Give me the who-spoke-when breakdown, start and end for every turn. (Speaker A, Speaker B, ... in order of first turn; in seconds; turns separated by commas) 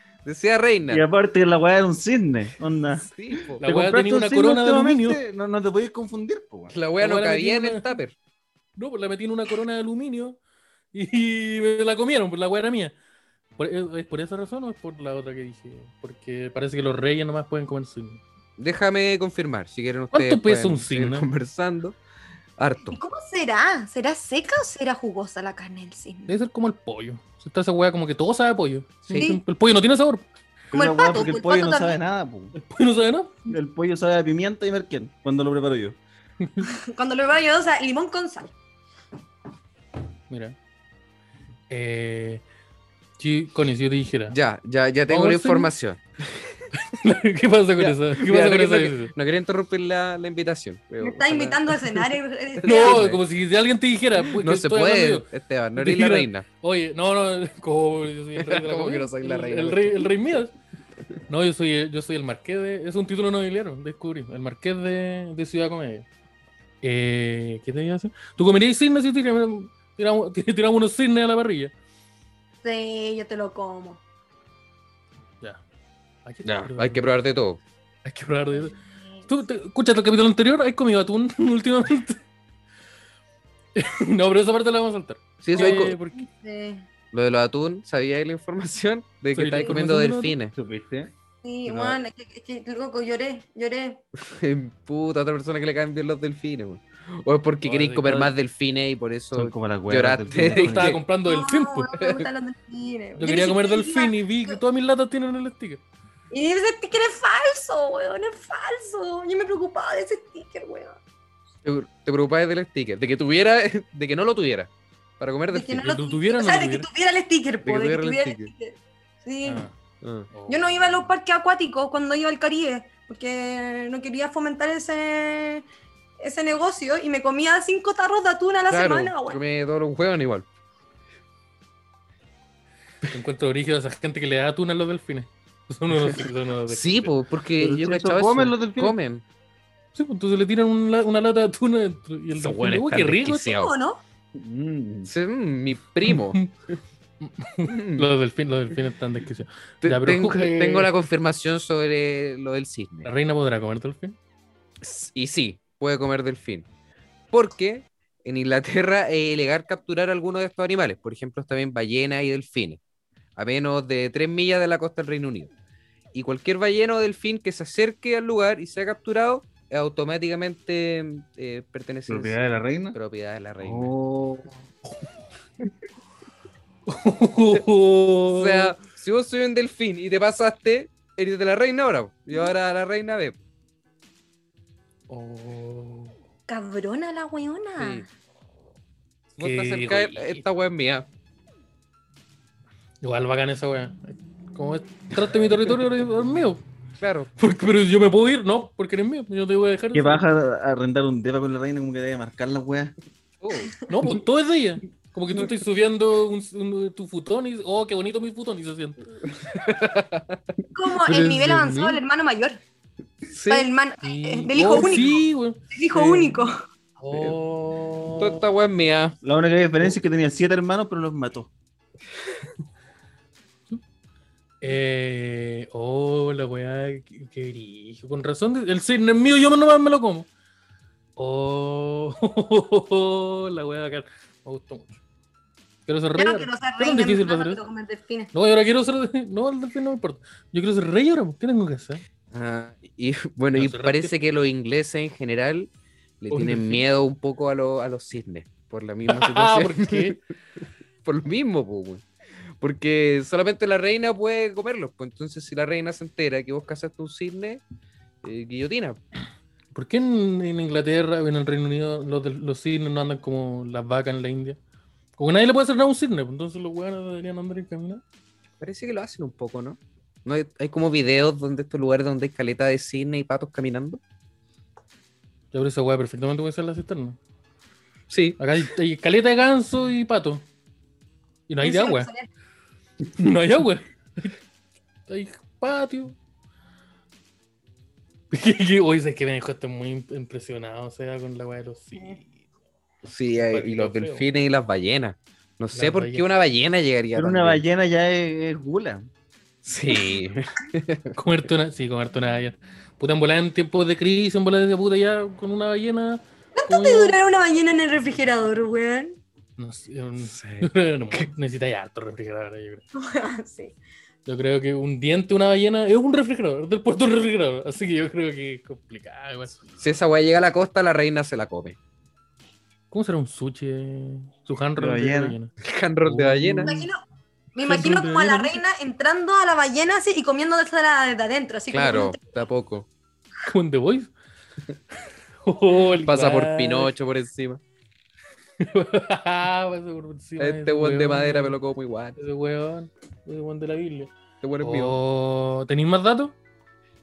Speaker A: 0.2-1.0, Speaker B: 0.9-6.7, Speaker A: 3.0-3.6, Speaker C: 3.6-5.2, Speaker A: 6.7-8.1, Speaker C: 7.0-7.9, Speaker C: 8.8-10.4, Speaker C: 10.9-12.9, Speaker C: 13.6-18.2, Speaker A: 18.6-22.0, Speaker C: 20.1-21.3, Speaker A: 22.6-23.0, Speaker D: 22.9-26.3, Speaker C: 26.2-30.2, Speaker D: 29.1-29.4, Speaker D: 30.7-31.9, Speaker B: 30.7-32.5, Speaker C: 32.6-33.5, Speaker B: 33.5-36.0, Speaker C: 36.4-36.7, Speaker D: 36.6-38.5, Speaker C: 40.3-40.5, Speaker C: 41.7-42.4, Speaker C: 43.2-44.3, Speaker A: 44.3-46.7, Speaker C: 45.1-45.7, Speaker C: 46.8-49.1, Speaker A: 47.8-52.1, Speaker D: 51.0-53.0, Speaker A: 52.6-53.2, Speaker C: 52.6-60.5, Speaker A: 54.2-56.5, Speaker A: 58.4-60.1, Speaker C: 61.3-66.0, Speaker C: 66.8-71.7, Speaker D: 72.6-74.0, Speaker C: 76.2-77.1, Speaker A: 76.4-77.6, Speaker C: 78.0-78.7, Speaker D: 78.5-79.3, Speaker C: 79.3-82.2, Speaker C: 83.8-86.2, Speaker A: 85.4-85.9, Speaker D: 85.5-86.8, Speaker A: 87.1-90.5, Speaker C: 89.3-90.4, Speaker B: 90.5-91.1, Speaker D: 91.4-94.0, Speaker A: 94.2-101.0, Speaker C: 97.6-98.3, Speaker B: 99.3-101.0, Speaker C: 100.5-101.9, Speaker D: 101.2-104.6, Speaker A: 102.0-102.3, Speaker C: 103.2-105.8, Speaker D: 106.3-111.0, Speaker A: 111.6-116.0, Speaker D: 115.5-119.6, Speaker C: 115.8-116.9, Speaker A: 117.6-118.5, Speaker C: 119.4-119.7, Speaker A: 120.0-120.3, Speaker C: 120.3-121.1, Speaker D: 120.5-125.6, Speaker D: 126.2-129.4, Speaker A: 128.7-130.4, Speaker C: 133.1-137.1, Speaker A: 136.7-139.2, Speaker B: 137.6-138.9, Speaker C: 139.9-143.5, Speaker A: 142.3-143.7, Speaker D: 143.4-144.0, Speaker B: 144.3-145.1, Speaker A: 145.0-146.8, Speaker C: 146.1-146.5, Speaker C: 147.2-150.9, Speaker A: 147.7-148.1, Speaker A: 149.8-153.1, Speaker C: 153.0-154.2, Speaker A: 154.8-156.7, Speaker A: 157.3-162.8, Speaker A: 163.3-165.5, Speaker A: 166.1-172.3, Speaker B: 172.1-173.0, Speaker A: 172.9-173.9, Speaker B: 173.6-174.5, Speaker C: 176.9-178.7, Speaker A: 178.3-183.4, Speaker C: 185.1-186.1, Speaker D: 186.5-188.1, Speaker A: 187.8-188.1, Speaker C: 189.3-190.4, Speaker A: 189.4-191.1, Speaker C: 193.0-196.6, Speaker A: 197.0-197.3, Speaker C: 197.4-200.2, Speaker B: 199.9-202.9, Speaker A: 203.4-203.7, Speaker C: 203.9-209.0, Speaker A: 209.3-212.0, Speaker D: 210.7-212.6, Speaker A: 213.2-213.7, Speaker D: 213.5-216.5, Speaker C: 214.0-216.4, Speaker C: 217.0-218.4, Speaker A: 218.2-219.2, Speaker B: 219.2-221.5, Speaker C: 224.6-230.3, Speaker C: 231.2-235.0, Speaker C: 235.9-237.6, Speaker D: 236.2-238.3, Speaker C: 238.3-242.0, Speaker A: 242.3-245.7, Speaker C: 243.5-244.1, Speaker A: 246.2-250.2, Speaker C: 246.3-246.8, Speaker C: 249.1-250.2, Speaker A: 251.0-252.1, Speaker A: 252.6-257.6, Speaker A: 258.2-259.0, Speaker C: 259.7-264.6, Speaker C: 265.2-268.0, Speaker A: 268.6-274.0, Speaker C: 275.5-277.2, Speaker A: 278.1-278.4, Speaker C: 278.4-280.4, Speaker C: 281.5-282.1, Speaker D: 281.6-282.3, Speaker C: 283.2-284.4, Speaker C: 285.1-286.1, Speaker C: 288.3-292.4, Speaker A: 293.0-297.6, Speaker C: 293.5-294.3, Speaker C: 295.7-296.2, Speaker B: 297.1-299.0, Speaker A: 299.6-301.2, Speaker C: 301.1-307.1, Speaker D: 306.6-309.2, Speaker C: 309.6-312.8, Speaker A: 310.2-311.3, Speaker D: 312.9-313.7, Speaker C: 314.2-319.6, Speaker A: 319.8-321.8, Speaker C: 322.9-325.5, Speaker B: 324.8-325.4, Speaker A: 325.6-326.7, Speaker C: 326.0-326.9, Speaker D: 326.6-327.0, Speaker D: 327.5-332.2, Speaker C: 327.6-328.6, Speaker A: 331.7-332.9, Speaker C: 333.5-334.1, Speaker C: 335.4-336.9, Speaker A: 336.0-337.6, Speaker C: 338.6-341.6, Speaker A: 340.4-342.1, Speaker C: 342.2-346.3, Speaker A: 344.4-345.0